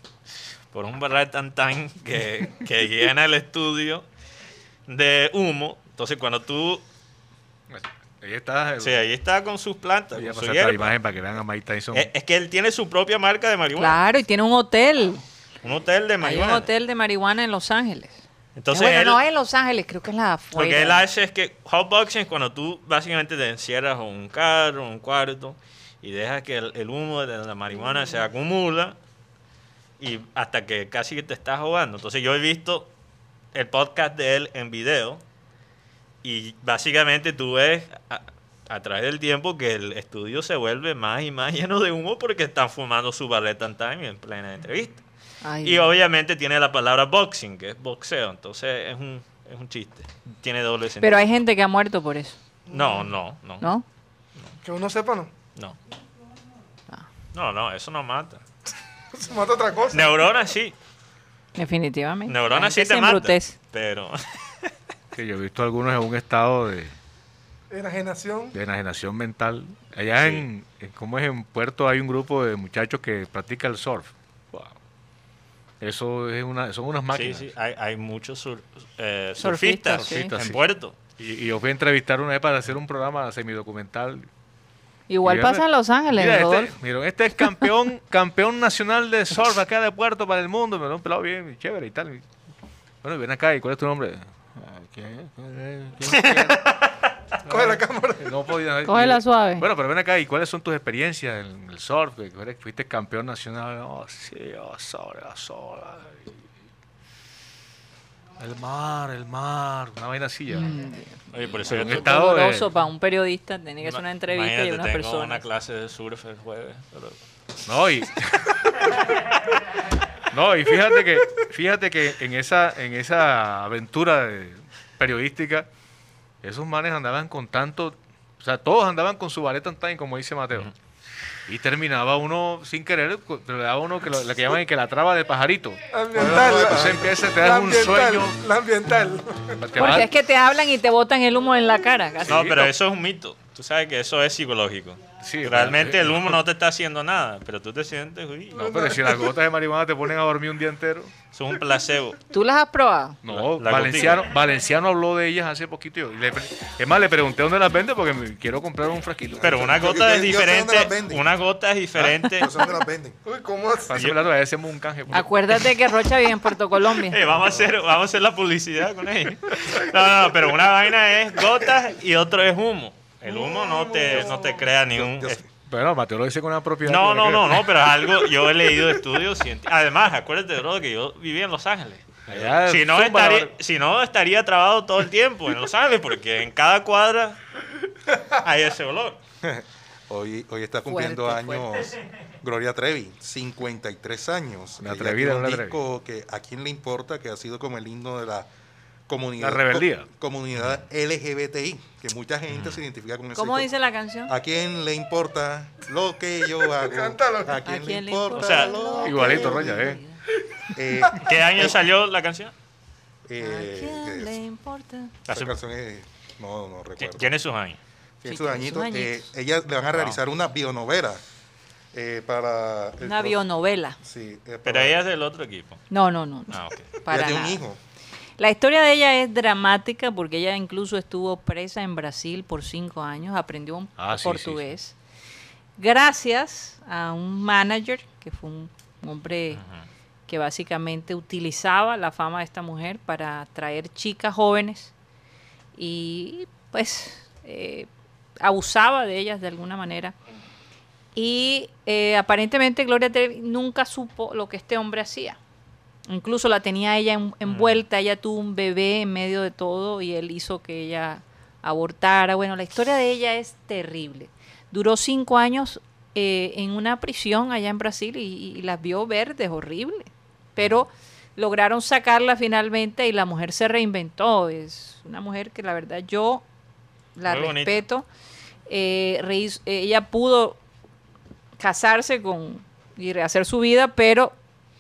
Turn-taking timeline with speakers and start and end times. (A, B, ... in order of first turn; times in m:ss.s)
0:00.7-0:04.1 A
0:04.9-0:06.8 A
0:07.7-0:09.0 B
0:08.8-0:11.0 A
0:10.2-0:12.1 B
0:11.9-0:14.0 A
0:13.8-0:15.2 C
0:15.6-0:16.7 A
0:16.2-0:21.0 C
0:18.6-0:19.2 A
0:20.6-0:29.0 A
0:30.0-0:32.9 A
0:33.5-0:35.2 A
0:36.2-0:45.0 A
0:45.4-0:45.9 C
0:45.6-0:51.3 A
0:51.0-0:52.4 C
0:52.7-0:53.7 A
0:54.6-0:55.3 D
0:57.3-0:58.4 A
0:59.2-1:00.2 D
0:59.9-1:00.8 A
1:01.6-1:03.5 C
1:02.3-1:04.7 A
1:05.1-1:06.9 B
1:07.7-1:08.6 D
1:08.5-1:14.8 B
1:10.2-1:10.5 A
1:15.8-1:17.5 B
1:17.1-1:21.0 A
1:19.4-1:20.3 C
1:20.0-1:20.6 B
1:21.2-1:24.3 B
1:25.1-1:26.8 C
1:25.2-1:32.3 B
1:33.0-1:36.6 B
1:36.1-1:36.7 A
1:37.4-1:38.3 D
1:37.5-1:46.3 B
1:38.9-1:39.7 C
1:48.4-1:50.8 B
1:50.5-1:51.1 C
1:51.3-1:52.1 A
1:51.7-1:52.7 B
1:51.7-1:55.4 C
1:53.8-1:57.2 A
1:57.7-1:58.9 B
2:00.3-2:05.7 B
2:06.4-2:10.7 B
2:11.5-2:18.4 B
2:15.9-2:19.6 D
2:16.1-2:17.1 E
2:19.6-2:20.1 B
2:19.8-2:22.4 C
2:22.2-2:22.7 B
2:22.3-2:28.7 A
2:25.2-2:26.4 B
2:28.5-2:31.1 B
2:28.6-2:29.2 D
2:31.3-2:32.2 A
2:32.3-2:33.2 C
2:33.2-2:39.6 B
2:33.3-2:34.3 A
2:39.4-2:41.3 E
2:39.4-2:42.5 A
2:42.0-2:43.2 E
2:43.2-2:44.0 D
2:43.9-2:45.6 B
2:45.1-2:47.2 C
2:47.0-2:55.4 A
2:53.3-2:54.6 D
2:54.9-2:55.5 E
2:55.7-2:57.7 B
2:56.8-3:07.4 A
3:02.3-3:03.5 B
3:08.2-3:09.2 A
3:09.4-3:18.5 E
3:10.9-3:11.7 C
3:14.8-3:15.8 B
3:19.1-3:23.7 E
3:19.4-3:20.1 B
3:22.5-3:22.8 A
3:23.4-3:24.3 C
3:24.3-3:29.9 E
3:26.6-3:27.6 D
3:27.6-3:30.2 C
3:28.3-3:28.8 A
3:29.0-3:30.0 B
3:30.7-3:31.8 E
3:31.2-3:32.5 A
3:33.3-3:34.4 E
3:33.4-3:35.1 C
3:35.3-3:35.6 A
3:35.3-3:37.3 E
3:37.0-3:37.8 A
3:38.2-3:41.2 E
3:38.3-3:39.3 C
3:39.9-3:40.2 A
3:41.9-3:43.4 E
3:43.0-3:44.0 C
3:44.0-3:45.0 E
3:44.6-3:45.8 A
3:45.9-3:47.6 C
3:46.5-3:46.9 A
3:47.1-3:47.8 E
3:48.4-3:55.0 C
3:54.0-3:54.7 B
3:55.8-3:59.6 C
3:59.5-3:59.9 A
4:00.3-4:04.9 C
4:05.8-4:07.9 C
4:08.4-4:10.1 C
4:11.2-4:15.4 C
4:16.1-4:36.4 C
4:17.5-4:17.8 A
4:37.2-4:38.1 C
4:37.3-4:37.8 A
4:38.7-4:40.6 C
4:41.6-4:44.4 C